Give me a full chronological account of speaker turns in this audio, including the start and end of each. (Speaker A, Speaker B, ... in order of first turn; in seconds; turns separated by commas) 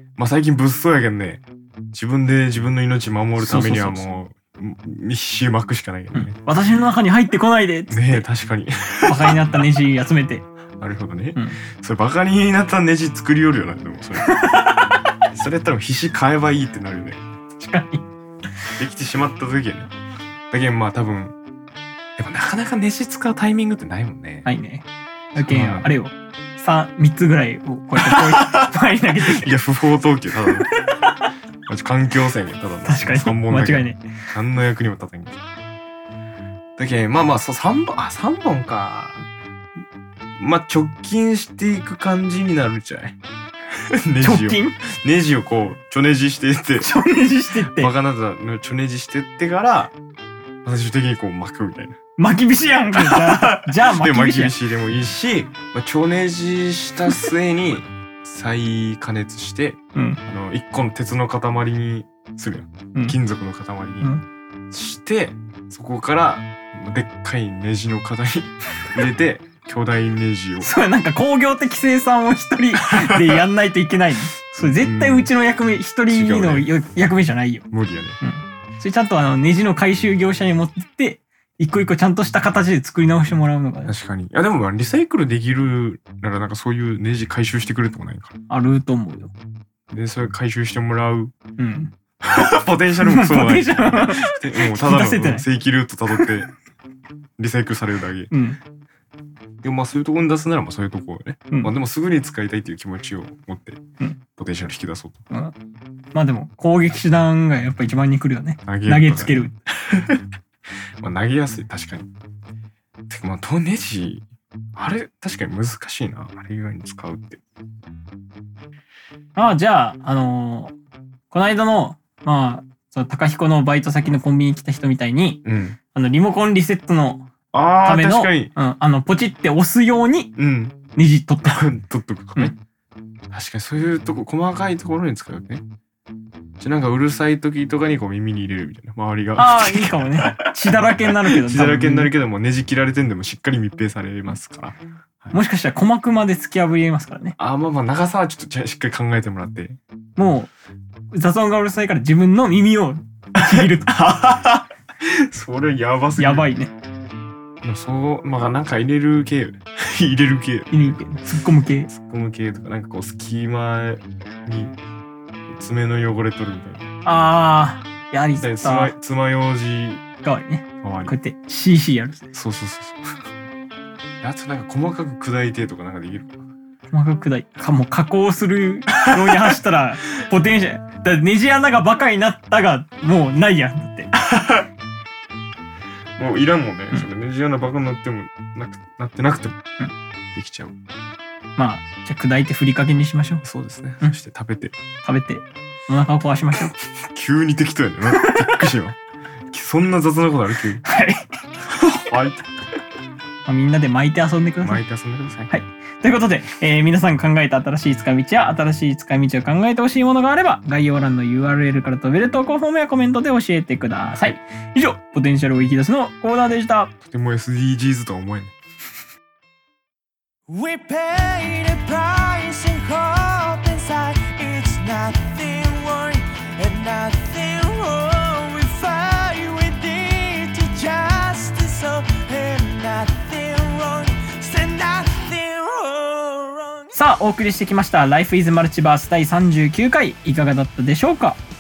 Speaker A: 0.2-6.4, Speaker B: 3.4-4.1, Speaker B: 6.1-8.2, Speaker A: 7.9-9.4, Speaker B: 9.1-10.5, Speaker A: 10.8-14.5, Speaker B: 14.3-14.9, Speaker A: 15.3-17.3, Speaker B: 17.6-18.1, Speaker A: 18.8-19.9, Speaker A: 20.5-21.4, Speaker A: 22.2-24.5, Speaker B: 24.4-29.5, Speaker A: 25.4-25.9, Speaker A: 28.0-28.7, Speaker A: 29.2-30.7, Speaker B: 30.7-31.2, Speaker A: 31.7-35.4, Speaker B: 32.9-34.0, Speaker A: 36.8-39.3, Speaker A: 40.4-43.2, Speaker A: 43.8-46.9, Speaker B: 44.2-44.8, Speaker B: 46.8-47.9, Speaker A: 47.6-49.9, Speaker A: 50.6-52.0, Speaker B: 52.2-54.6, Speaker A: 53.0-64.1, Speaker B: 60.0-60.2, Speaker A: 64.7-70.7, Speaker B: 70.6-77.7, Speaker A: 72.9-73.5, Speaker A: 74.6-75.3, Speaker A: 76.1-76.7, Speaker A: 77.7-78.2, Speaker B: 78.2-83.9, Speaker A: 83.9-88.4, Speaker B: 88.5-89.3, Speaker A: 89.9-91.3, Speaker B: 91.6-92.4, Speaker A: 92.2-96.5, Speaker B: 93.0-95.5, Speaker A: 97.4-98.3, Speaker B: 98.3-98.6, Speaker A: 99.6-103.8, Speaker A: 104.4-105.2, Speaker B: 106.1-109.5, Speaker A: 108.7-110.2, Speaker A: 111.0-112.1, Speaker A: 113.1-117.4, Speaker B: 119.4-120.7, Speaker B: 121.3-125.4, Speaker A: 125.5-125.8, Speaker B: 125.9-127.3, Speaker A: 127.5-128.5, Speaker B: 127.8-130.3, Speaker A: 130.4-130.8, Speaker B: 130.9-131.6, Speaker A: 131.4-132.5, Speaker A: 133.3-135.6, Speaker A: 136.6-145.3, Speaker B: 139.4-142.1, Speaker B: 145.3-147.4, Speaker A: 147.4-149.8, Speaker B: 150.2-150.5, Speaker B: 151.1-153.9, Speaker A: 153.4-156.5, Speaker B: 156.2-156.7, Speaker A: 157.6-161.3, Speaker B: 160.7-161.9, Speaker A: 161.9-164.8, Speaker A: 165.5-166.9, Speaker B: 167.1-168.9, Speaker A: 168.4-170.0, Speaker B: 170.2-172.3, Speaker A: 170.8-171.1, Speaker A: 172.3-173.3, Speaker A: 174.2-176.4, Speaker B: 176.9-184.1, Speaker A: 179.1-179.6, Speaker A: 184.2-184.7, Speaker A: 186.2-189.6, Speaker A: 190.3-190.8, Speaker B: 191.6-193.4, Speaker A: 193.4-194.8, Speaker B: 195.0-196.8, Speaker A: 196.9-200.8, Speaker B: 198.1-198.6, Speaker B: 200.8-202.1, Speaker A: 202.0-202.5, Speaker B: 203.5-204.8, Speaker A: 204.6-205.5, Speaker B: 205.5-216.9, Speaker A: 217.0-218.6, Speaker C: 220.5-236.9, Speaker B: 236.9-241.4